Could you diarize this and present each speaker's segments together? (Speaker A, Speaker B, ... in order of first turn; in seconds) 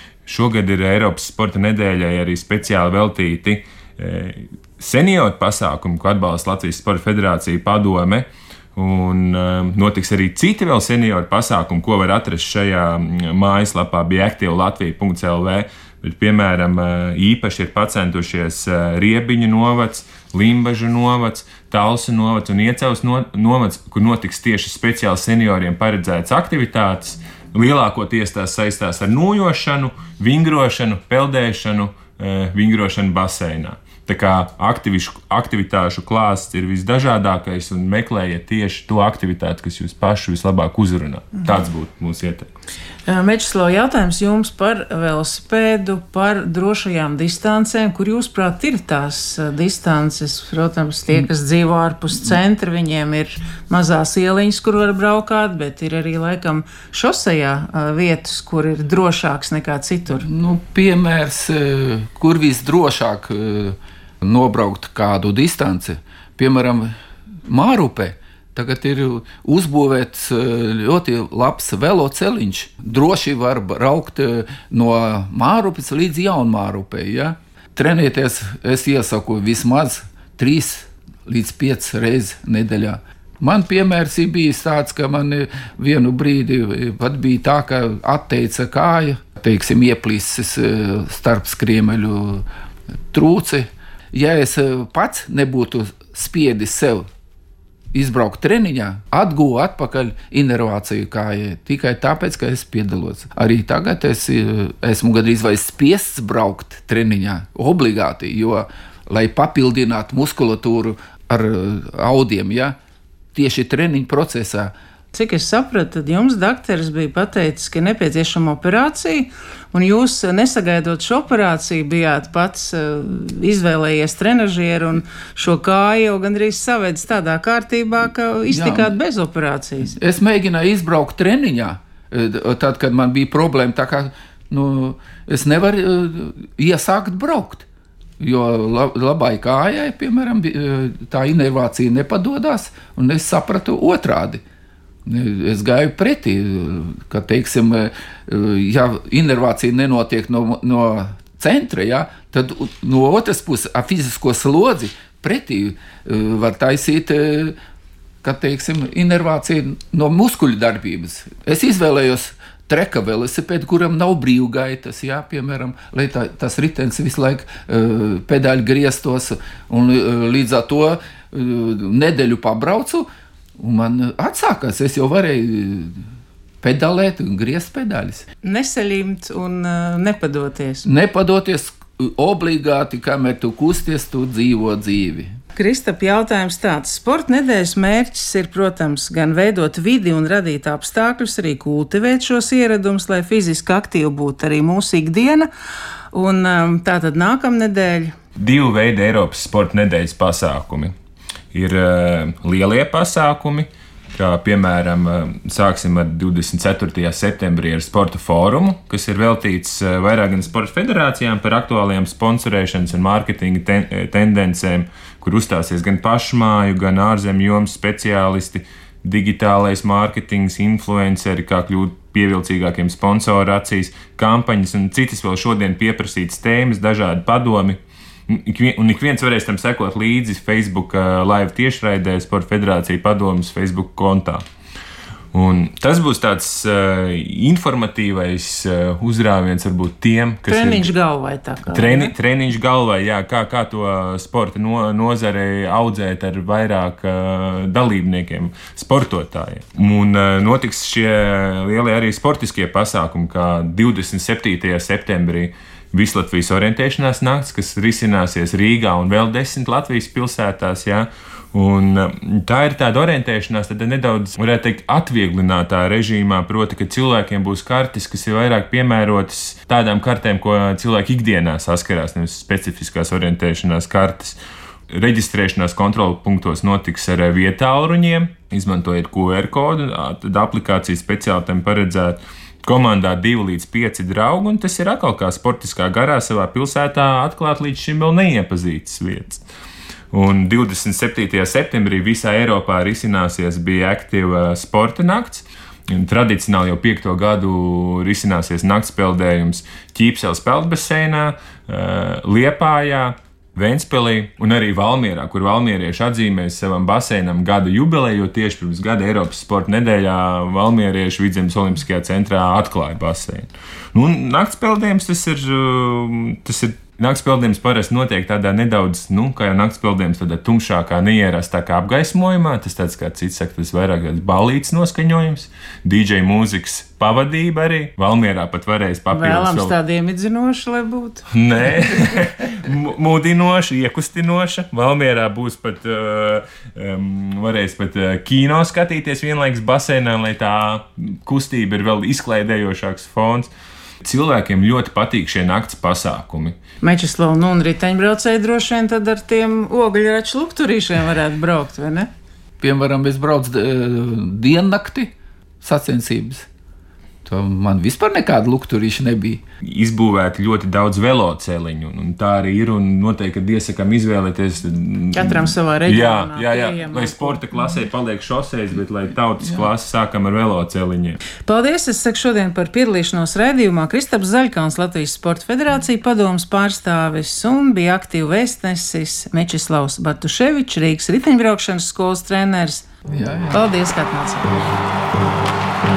Speaker A: 0.3-42.5, 198.4-200.9, 201.5-234.4, 235.3-240.9, 241.6-274.4, 274.9-289.4, 290.1-329.8, 331.3-343.5, 344.0-346.6, 359.6-371.2
Speaker B: 43.1-60.3, 115.1-129.9, 178.4-180.9, 185.6-195.5, 196.1-198.2, 240.5-242.1, 329.1-331.3, 346.8-352.1, 365.1-367.4, 371.4-382.9, 383.5-384.7
Speaker C: 60.2-66.9, 67.5-92.5, 93.1-97.1, 97.9-112.8, 113.3-114.7, 128.5-128.9, 129.9-137.7, 138.2-144.4, 145.1-157.6, 158.2-173.1, 173.6-176.0, 176.6-178.2, 180.9-185.3, 352.6-355.1, 355.6-356.5, 357.2-359.4, 383.1-383.6